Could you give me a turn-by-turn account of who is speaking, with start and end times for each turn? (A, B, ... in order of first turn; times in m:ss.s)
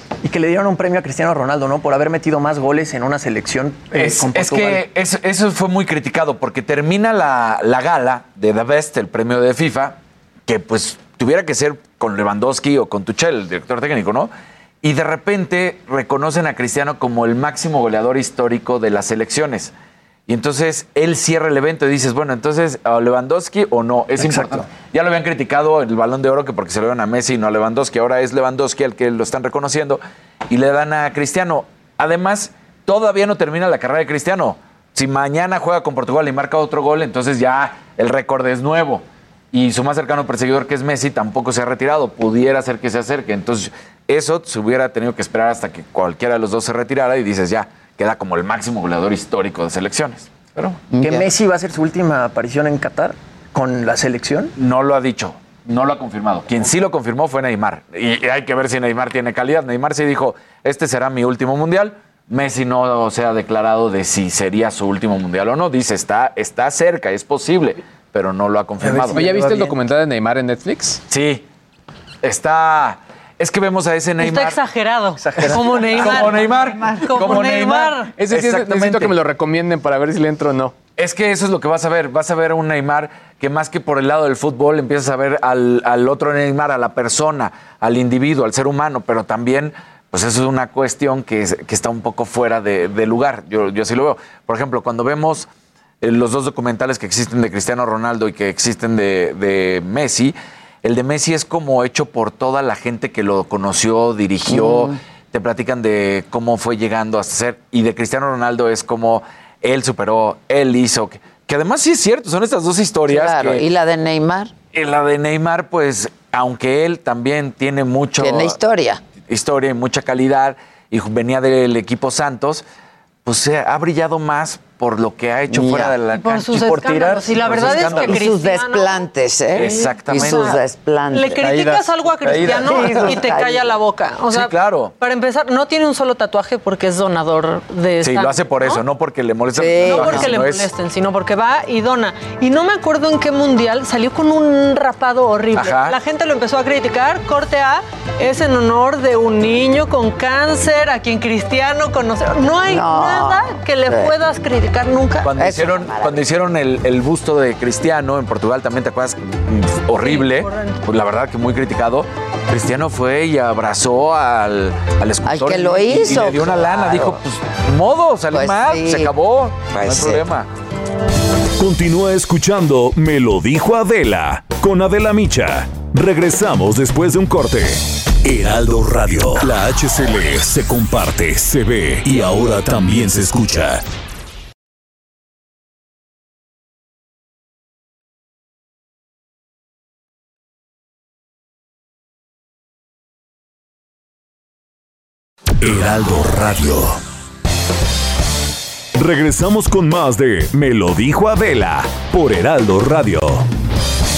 0:00.2-0:04.8 A
0:03.9-0:14.3 B
0:14.8-0:19.7 B
0:20.3-0:50.3 B
0:24.2-0:24.6 A
0:50.6-0:54.5 A
0:50.9-0:51.3 C
0:54.6-1:09.3 B
1:08.8-1:09.8 A
1:09.1-1:11.0 D
1:11.1-1:11.4 B
1:12.2-1:14.6 B
1:14.2-1:18.1 E
1:15.2-1:16.0 A
1:15.4-1:19.2 B
1:16.4-1:17.2 C
1:18.2-1:20.7 D
1:21.0-1:35.5 B
1:36.0-1:53.6 B
1:44.5-1:45.0 C
1:53.1-1:54.5 C
1:54.7-1:58.6 B
1:58.2-1:59.0 C
1:59.2-2:02.6 B
2:03.2-2:08.2 B
2:05.5-2:05.9 C
2:06.1-2:09.0 E
2:07.5-2:11.6 C
2:09.5-2:10.6 B
2:09.6-2:10.5 E
2:11.1-2:18.8 E
2:12.2-2:13.2 B
2:12.4-2:13.8 C
2:14.3-2:14.9 B
2:18.0-2:20.7 B
2:19.5-2:20.3 C
2:19.8-2:35.4 E
2:25.5-2:26.0 B
2:32.6-2:34.2 C
2:35.2-2:50.5 B
2:35.3-2:36.2 C
2:40.0-2:40.8 E
2:45.2-2:47.2 C
2:48.3-2:49.1 C
2:49.7-2:50.3 C
2:51.6-3:03.8 F
3:15.6-3:17.0 F
3:19.0-3:23.4 F